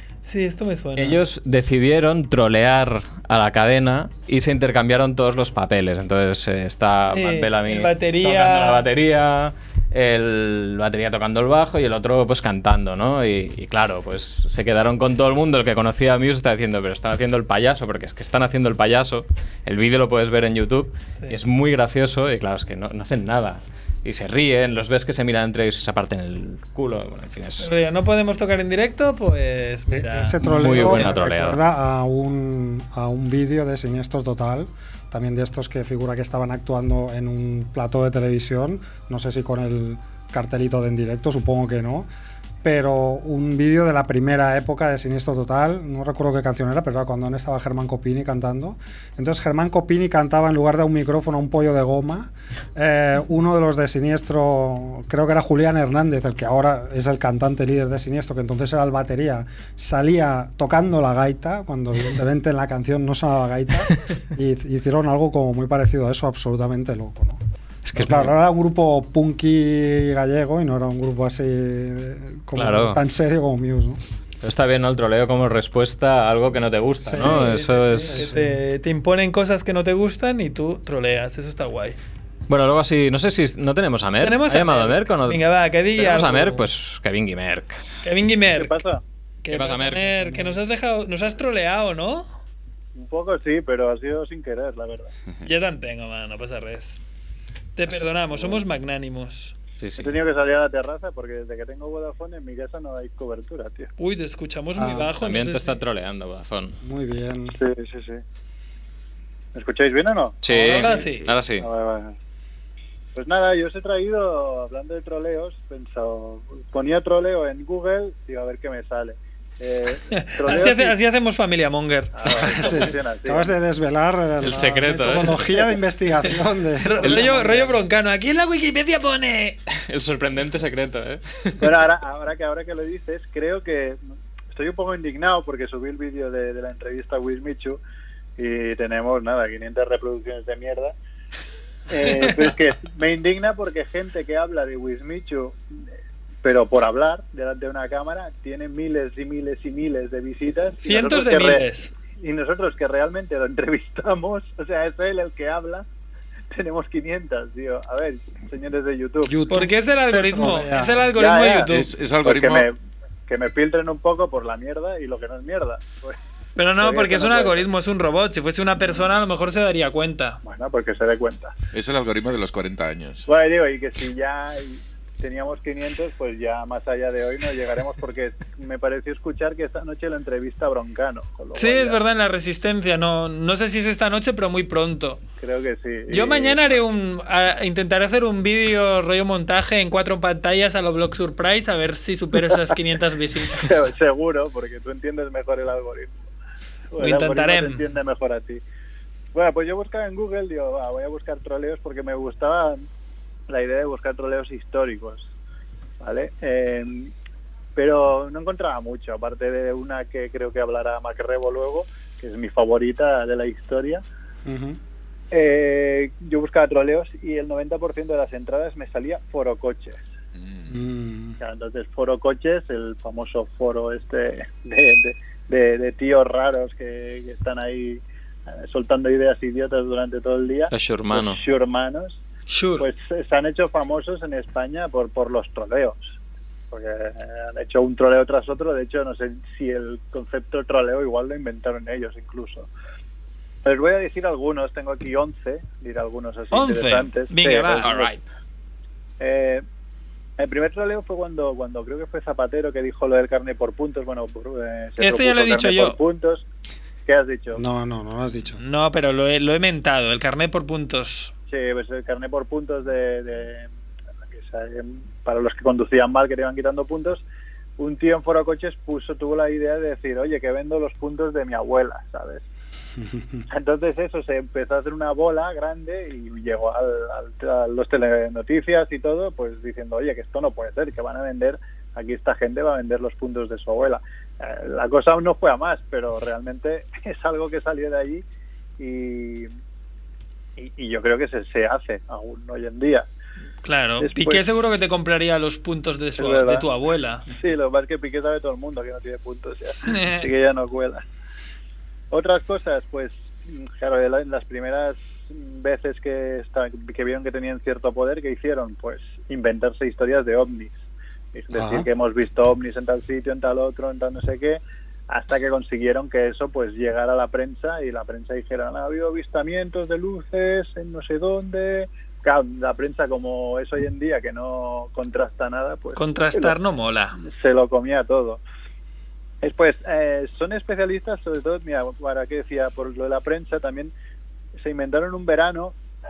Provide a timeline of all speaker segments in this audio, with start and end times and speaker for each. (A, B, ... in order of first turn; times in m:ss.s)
0:00.2-0:01.2 A
0:01.0-0:27.7 B
0:07.1-0:08.8 A
0:27.6-0:31.2 A
0:29.9-0:42.1 C
0:30.4-0:31.6 B
0:42.6-1:07.4 C
1:07.8-1:08.4 B
1:08.0-1:14.0 C
1:12.5-1:13.0 B
1:14.4-1:18.3 B
1:17.0-1:18.5 C
1:17.1-1:22.0 A
1:22.5-1:27.8 B
1:24.2-1:26.6 A
1:28.0-1:28.7 A
1:28.5-1:29.0 D
1:29.4-1:32.3 A
1:29.5-1:30.3 B
1:32.9-1:35.1 D
1:35.4-1:37.0 A
1:37.8-1:39.5 A
1:38.3-1:38.6 D
1:39.8-1:40.2 B
1:40.0-1:43.9 D
1:44.0-1:45.8 A
1:44.8-1:45.1 C
1:45.2-1:46.8 B
1:46.8-1:47.6 C
1:47.5-1:48.2 D
1:49.5-1:52.1 D
1:50.4-1:51.7 B
1:50.6-1:51.2 A
1:53.1-2:01.0 D
2:00.1-2:02.8 A
2:02.1-2:03.5 D
2:02.4-2:07.4 C
2:04.4-2:05.4 B
2:06.8-2:09.6 A
2:07.0-2:07.7 D
2:09.7-2:11.6 B
2:11.6-2:14.0 D
2:14.5-2:17.8 D
2:18.4-2:20.9 D
2:21.9-2:25.6 D
2:26.4-2:31.6 D
2:30.8-2:31.9 A
2:32.1-2:35.8 D
2:36.5-2:39.4 D
2:39.2-2:41.1 C
2:39.5-2:41.9 A
2:41.1-2:41.7 D
2:41.7-2:42.7 E
2:42.2-2:42.7 D
2:43.3-2:46.2 D
2:46.6-2:50.4 A
2:46.8-2:47.7 D
2:50.4-2:51.5 D
2:51.7-2:53.3 E
2:53.3-3:02.0 D
3:01.5-3:05.2 A
3:05.4-3:06.8 D
3:06.1-3:13.7 A
3:13.6-3:16.1 D
3:16.9-3:18.6 D
3:17.0-3:17.8 A
3:19.3-3:22.8 D
3:23.5-3:25.3 D
3:26.0-3:27.1 D
3:27.8-3:34.0 D
3:34.4-3:34.8 C
3:35.3-3:40.0 D
3:40.4-3:40.7 E
3:40.7-3:41.4 C
3:41.4-3:52.2 D
3:50.7-3:51.4 B
3:52.5-3:52.8 A
3:52.8-3:56.1 D
3:56.7-4:02.7 D
4:03.6-4:08.2 D
4:06.5-4:08.2 A
4:09.2-4:09.6 D
4:10.4-4:16.4 D
4:15.0-4:16.0 A
4:17.0-4:17.6 D
4:17.6-4:18.6 C
4:18.6-4:21.3 A
4:21.5-4:23.7 D
4:24.3-4:27.2 D
4:27.8-4:32.4 D
4:33.0-4:33.4 C
4:33.5-4:48.2 D
4:48.8-4:49.5 D
4:50.6-4:53.0 D
4:53.6-4:57.2 A
4:54.0-4:54.4 D
4:56.2-4:56.6 D
4:57.3-5:01.0 D
4:59.9-5:00.3 A
5:02.1-5:10.8 D
5:11.3-5:26.6 D
5:11.5-5:11.9 C
5:26.0-5:27.2 A
5:27.2-5:28.4 D
5:29.4-5:33.9 D
5:34.6-5:35.7 D